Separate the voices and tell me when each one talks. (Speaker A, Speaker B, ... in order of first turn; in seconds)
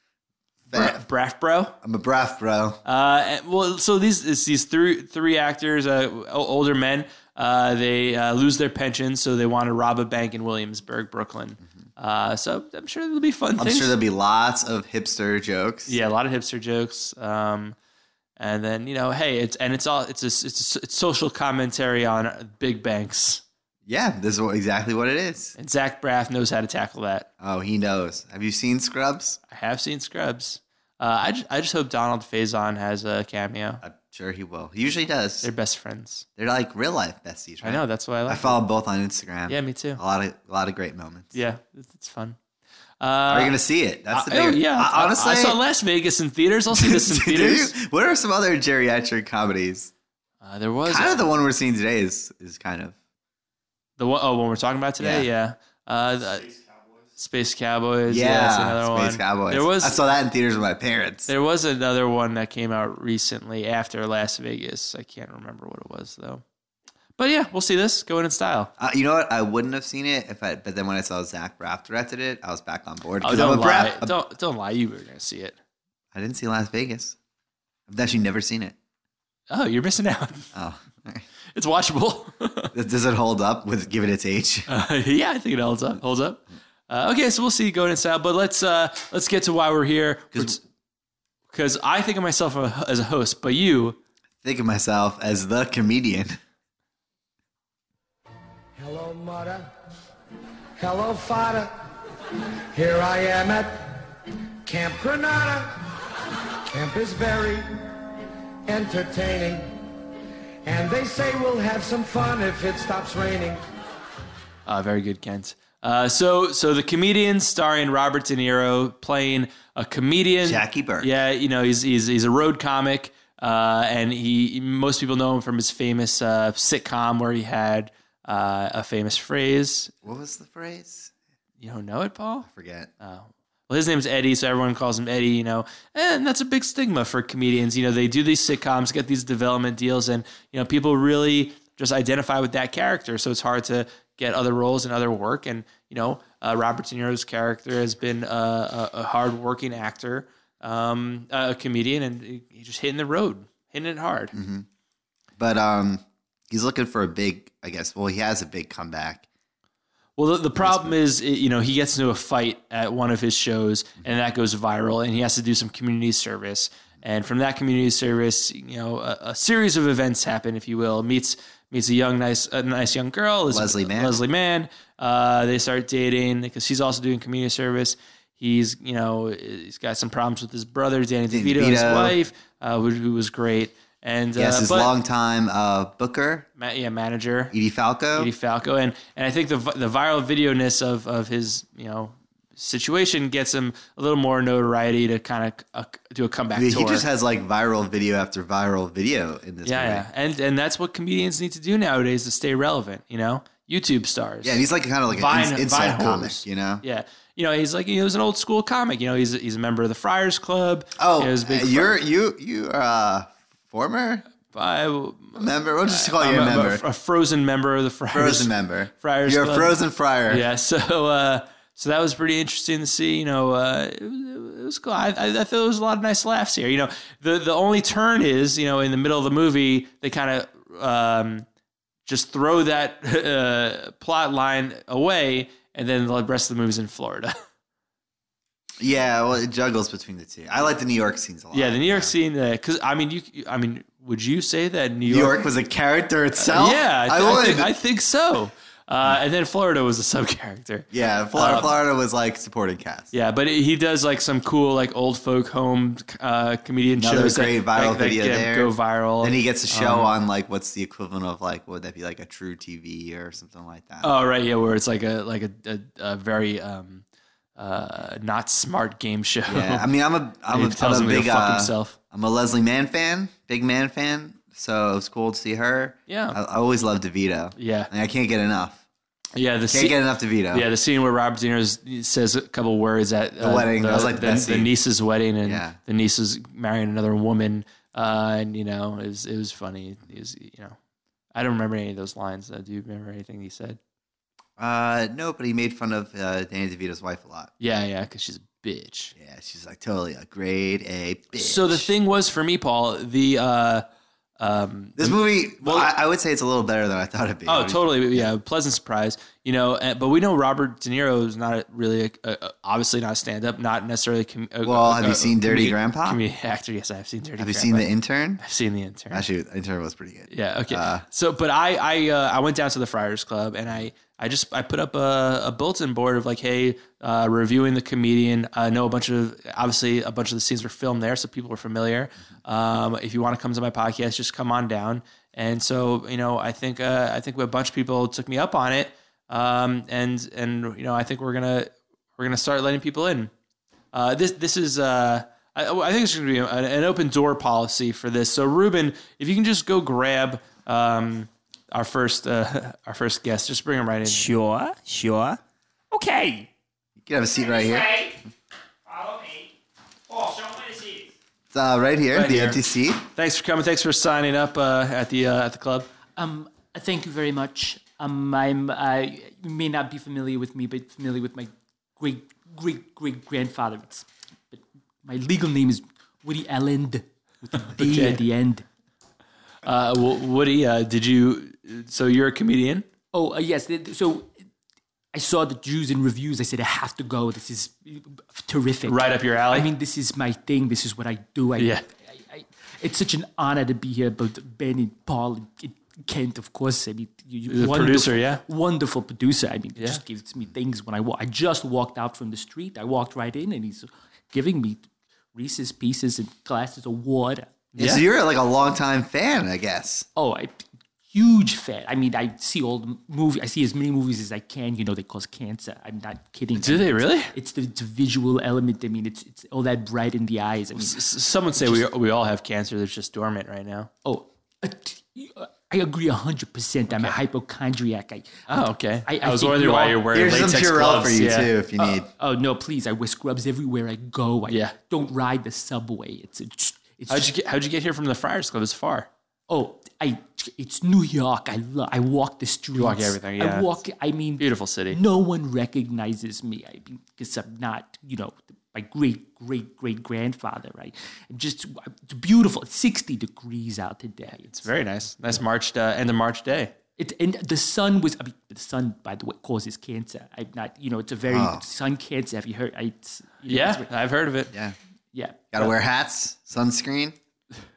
Speaker A: 0.7-1.0, 1.8-2.8, 13.6-15.9, 23.9-25.5, 27.4-29.4, 33.8-35.5, 36.4-41.4, 43.3-45.6, 46.7-49.9, 50.9-52.9, 55.0-55.3, 58.1-61.3, 68.8-74.1, 76.1-77.2, 77.9-78.8, 80.5-81.2, 82.7-84.7, 94.4-96.4, 120.4-121.1, 130.0-131.1, 132.4-132.9, 154.3-154.7, 155.4-159.2, 160.6-161.0, 173.5-174.2, 181.3-182.2, 184.3-186.5, 187.5-188.3, 196.5-200.1, 204.4-206.8, 211.0-214.2, 215.3-216.8, 218.1-220.4, 238.8-242.1, 245.1-247.7, 250.9-253.1, 257.0-264.1, 269.5-278.8, 279.7-280.7, 283.4-284.7, 285.4-285.8, 294.6-297.5, 299.1-301.9, 305.0-308.3, 314.6-316.2, 317.4-318.4, 319.1-321.0, 357.0-358.0, 361.5-363.0, 407.8-410.1, 430.1-432.1, 461.3-461.6, 464.5-464.8, 465.5-467.1
Speaker B: 0.7-1.7, 2.8-13.9, 15.9-17.7, 18.4-23.4, 25.6-27.3, 29.5-33.8, 35.4-36.2, 37.6-38.6, 39.5-40.0, 41.3-42.4, 43.0-43.6, 44.1-47.7, 50.4-51.3, 54.0-56.5, 57.1-60.0, 61.3-66.4, 67.2-68.7, 73.2-75.5, 79.5-80.5, 81.5-82.7, 84.7-90.6, 91.5-94.0, 114.7-129.9, 131.6-132.5, 133.0-154.3, 160.2-184.9, 186.6-187.5, 188.1-197.0, 199.6-212.0, 214.5-219.7, 220.3-231.4, 232.1-237.3, 241.5-245.4, 246.3-251.7, 253.1-260.1, 264.0-267.0, 267.6-269.9, 270.5-271.9, 276.1-276.4, 277.6-277.9, 279.4-280.0, 280.5-290.8, 291.3-293.8, 297.6-299.1, 301.4-303.8, 304.4-305.9, 307.4-319.2, 320.3-343.3, 343.9-354.3, 362.1-365.9, 377.7-378.2, 379.6-382.9, 388.9-389.7, 391.6-391.8, 397.5-398.4, 407.7-408.0, 416.6-417.3, 420.8-423.9, 426.9-427.2, 428.5-431.5, 434.5-434.7, 437.1-439.1, 442.7-443.8, 444.4-445.0, 454.4-456.7, 463.5-464.5
Speaker C: 98.8-99.7, 100.8-101.7, 102.7-104.0, 104.6-105.8, 106.7-107.7, 108.7-109.8, 110.6-113.6
Speaker D: 354.0-355.4, 355.9-356.5, 358.9-359.5, 360.1-361.1
Speaker E: 366.2-378.6, 383.1-384.3, 385.1-407.5, 410.1-421.0, 421.6-421.9, 424.0-428.4, 429.1-430.1, 431.8-437.3, 439.5-454.6, 457.0-463.9, 465.1-465.6